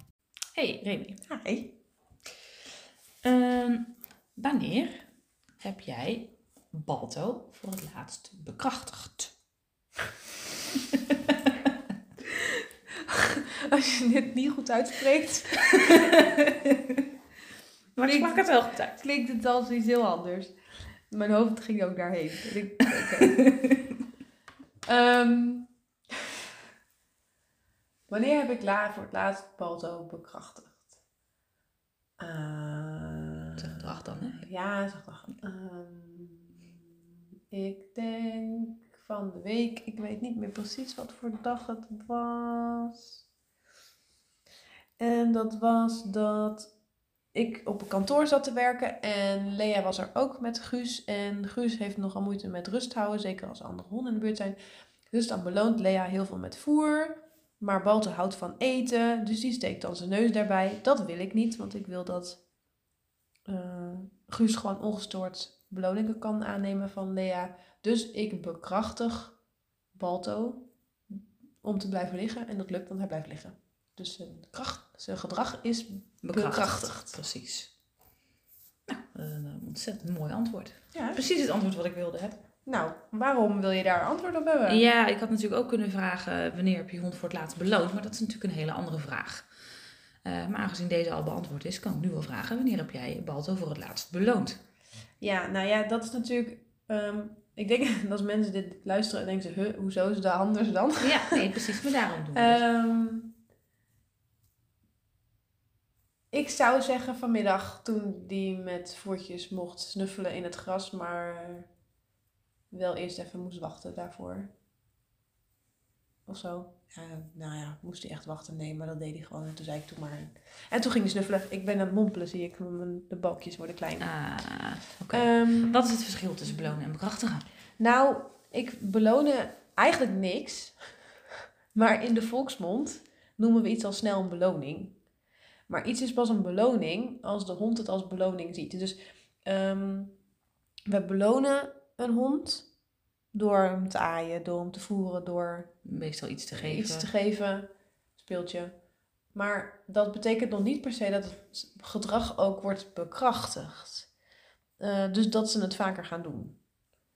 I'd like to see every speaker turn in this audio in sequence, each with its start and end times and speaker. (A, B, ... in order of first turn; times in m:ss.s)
0:00.6-0:01.2 A
0:01.2-0:01.7 B
0:03.2-0:05.0 A
0:05.6-0:09.3 A
0:10.9-0:11.7 A
0:12.3-0:16.4 B
0:15.8-0:17.1 A
0:18.0-0:19.0 A
0:18.0-0:20.5 B
0:21.1-0:23.6 B
0:23.0-0:23.8 A
0:24.9-0:25.7 B
0:28.1-0:30.9 B
0:32.2-0:36.8 B
0:33.6-0:34.5 A
0:37.5-0:43.2 B
0:45.0-0:46.7 B
0:47.3-0:54.6 B
0:55.1-1:02.4 B
1:03.5-1:09.4 B
1:10.0-1:10.7 B
1:11.6-1:17.2 B
1:16.2-1:17.7 A
1:18.9-1:22.4 A
1:20.9-1:21.2 B
1:22.7-1:24.9 B
1:24.7-1:29.5 A
1:30.2-1:34.6 A
1:35.2-1:41.6 B
1:41.0-1:42.6 A
1:42.3-1:43.4 B
1:46.3-1:51.7 B
1:52.7-1:54.5 B
1:56.3-2:04.1 B
2:04.0-2:07.4 A
2:05.1-2:05.9 B
2:07.8-2:10.8 B
2:11.8-2:15.0 B
2:15.7-2:20.1 B
2:20.9-2:22.7 B
2:23.3-2:25.7 B
2:25.8-2:27.1 A
2:26.6-2:28.7 B
2:29.3-2:34.1 B
2:34.8-2:36.6 B